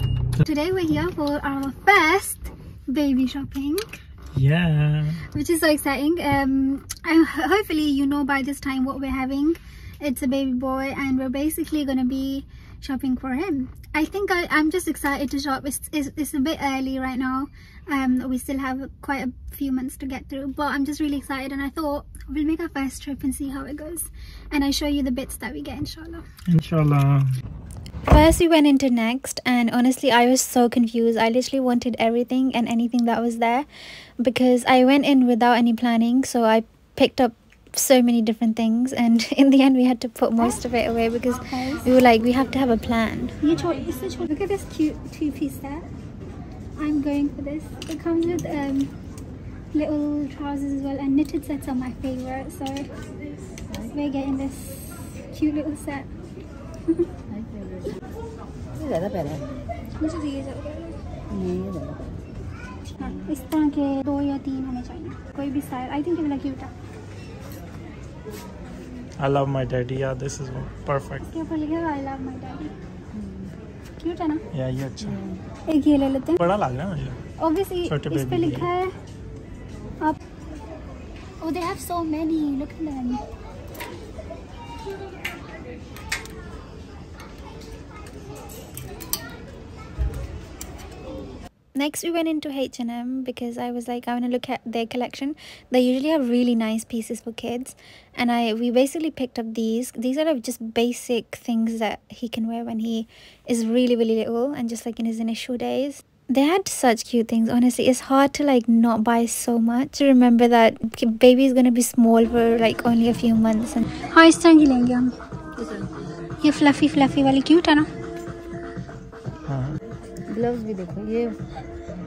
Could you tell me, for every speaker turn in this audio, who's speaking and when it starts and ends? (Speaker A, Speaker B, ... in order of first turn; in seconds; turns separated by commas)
Speaker A: 0.4-3.9, Speaker B: 4.3-5.2, Speaker A: 5.3-26.2, Speaker B: 26.5-27.3, Speaker A: 28.1-33.7, Speaker A: 34.2-45.9, Speaker A: 46.8-48.9, Speaker A: 49.7-52.9, Speaker A: 53.8-56.1, Speaker C: 57.3-58.0, Speaker C: 58.8-59.5, Speaker A: 60.0-61.0, Speaker C: 61.3-62.2, Speaker A: 63.0-66.7, Speaker B: 69.2-71.3, Speaker A: 71.3-72.7, Speaker C: 73.1-73.5, Speaker A: 74.0-74.4, Speaker B: 74.5-75.2, Speaker C: 75.1-75.4, Speaker A: 75.7-76.4, Speaker B: 76.4-77.2, Speaker A: 77.4-78.9, Speaker B: 77.8-78.7, Speaker A: 81.4-83.2, Speaker A: 91.7-115.1, Speaker A: 116.4-117.9, Speaker B: 119.5-119.7, Speaker C: 120.3-121.4